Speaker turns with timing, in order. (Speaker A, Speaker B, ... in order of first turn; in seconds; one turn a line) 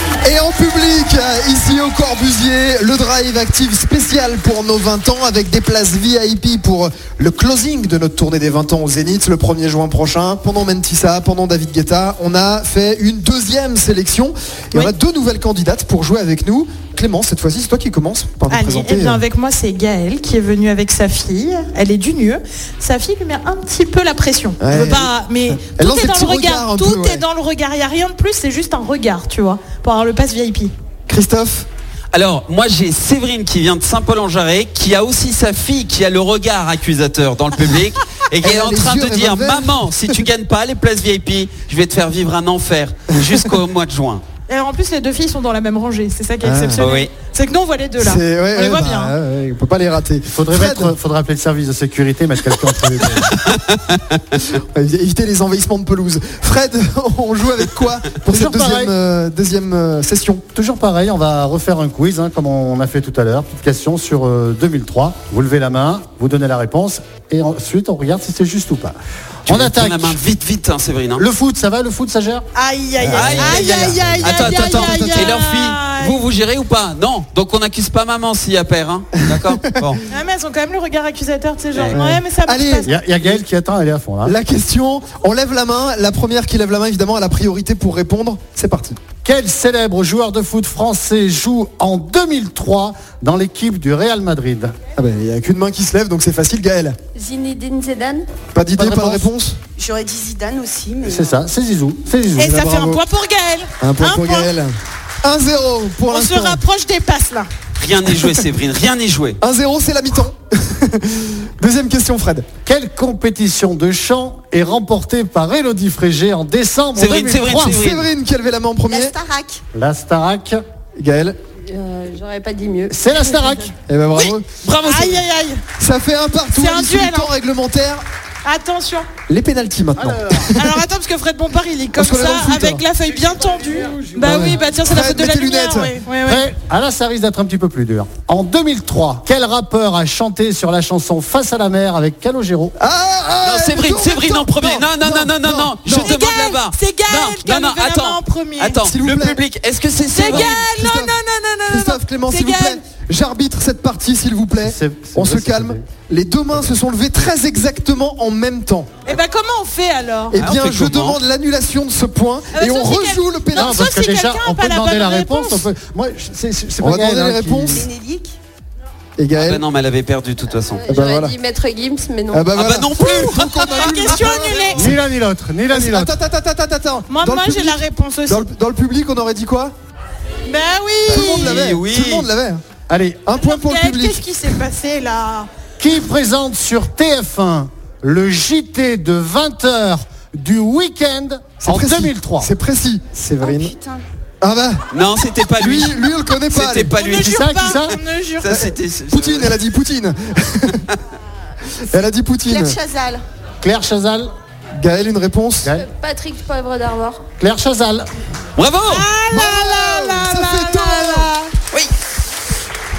Speaker A: 0.2-19.2
Speaker B: 18.5-30.7
Speaker A: 24.6-27.2
Speaker A: 31.1-31.7
Speaker C: 32.1-44.2
Speaker A: 38.4-40.3
Speaker B: 44.5-49.1
Speaker A: 46.4-46.9
Speaker C: 46.8-47.1
Speaker A: 48.0-50.9
Speaker D: 50.3-53.4
Speaker C: 53.3-54.0
Speaker A: 54.4-60.5
Speaker D: 58.3-58.9
Speaker D: 60.5-70.3
Speaker C: 69.5-71.3
Speaker D: 71.2-72.4
Speaker B: 72.5-76.2
Speaker D: 73.0-74.3
Speaker C: 73.1-80.0
Speaker A: 73.5-75.4
Speaker B: 80.1-82.9
Speaker A: 81.9-83.4
Speaker D: 82.8-84.3
Speaker A: 84.2-89.0
Speaker D: 89.2-94.8
Speaker A: 95.0-97.0
Speaker E: 97.2-98.3
Speaker A: 98.5-99.6
Speaker D: 98.8-99.2
Speaker F: 100.5-101.1
Speaker D: 101.0-102.6
Speaker B: 102.4-104.5
Speaker A: 102.5-103.0
Speaker A: 103.8-106.6
Speaker B: 106.1-107.5
Speaker C: 107.8-109.4
Speaker A: 109.4-112.5
Speaker D: 112.7-117.8
Speaker C: 117.0-118.1
Speaker A: 117.7-119.2
Speaker F: 118.9-119.6
Speaker D: 119.8-120.6
Speaker A: 121.0-121.4
Speaker E: 121.7-123.7
Speaker D: 122.9-123.7
Speaker A: 123.9-124.5
Speaker C: 124.2-125.2
Speaker B: 124.8-125.6
Speaker A: 125.8-128.0
Speaker B: 126.5-127.3
Speaker B: 128.4-129.1
Speaker A: 129.3-130.8
Speaker D: 130.0-130.4
Speaker B: 130.6-136.5
Speaker A: 132.0-132.8
Speaker A: 134.2-135.9
Speaker D: 136.2-142.8
Speaker A: 142.8-146.2
Speaker C: 143.4-150.6
Speaker B: 145.9-148.8
Speaker A: 148.8-149.4
Speaker B: 150.1-152.8
Speaker A: 150.3-151.2
Speaker A: 151.7-158.9
Speaker D: 154.6-155.8
Speaker B: 159.1-160.4
Speaker A: 160.3-163.9
Speaker C: 160.4-161.2
Speaker B: 162.5-165.7
Speaker D: 163.6-167.9
Speaker A: 166.8-167.9
Speaker A: 169.2-169.6
Speaker C: 169.4-170.9
Speaker E: 170.8-172.5
Speaker A: 170.9-171.4
Speaker A: 172.3-175.0
Speaker C: 172.5-174.5
Speaker B: 173.0-174.9
Speaker D: 174.8-176.1
Speaker A: 175.7-179.7
Speaker B: 177.1-178.5
Speaker B: 180.5-181.6
Speaker A: 181.1-182.6
Speaker C: 181.1-182.3
Speaker D: 182.9-183.3
Speaker A: 183.2-184.2
Speaker B: 183.4-185.5
Speaker D: 185.8-192.5
Speaker A: 191.6-193.8
Speaker F: 193.5-194.0
Speaker A: 194.4-194.8
Speaker C: 194.9-199.6
Speaker A: 195.6-196.9
Speaker B: 197.0-198.7
Speaker D: 197.2-197.9
Speaker A: 198.5-200.8
Speaker A: 201.9-202.8
Speaker F: 202.5-203.2
Speaker D: 203.6-204.3
Speaker A: 204.8-205.7
Speaker E: 205.8-207.2
Speaker D: 207.4-208.1
Speaker C: 208.6-209.1
Speaker B: 208.9-211.5
Speaker A: 209.3-211.3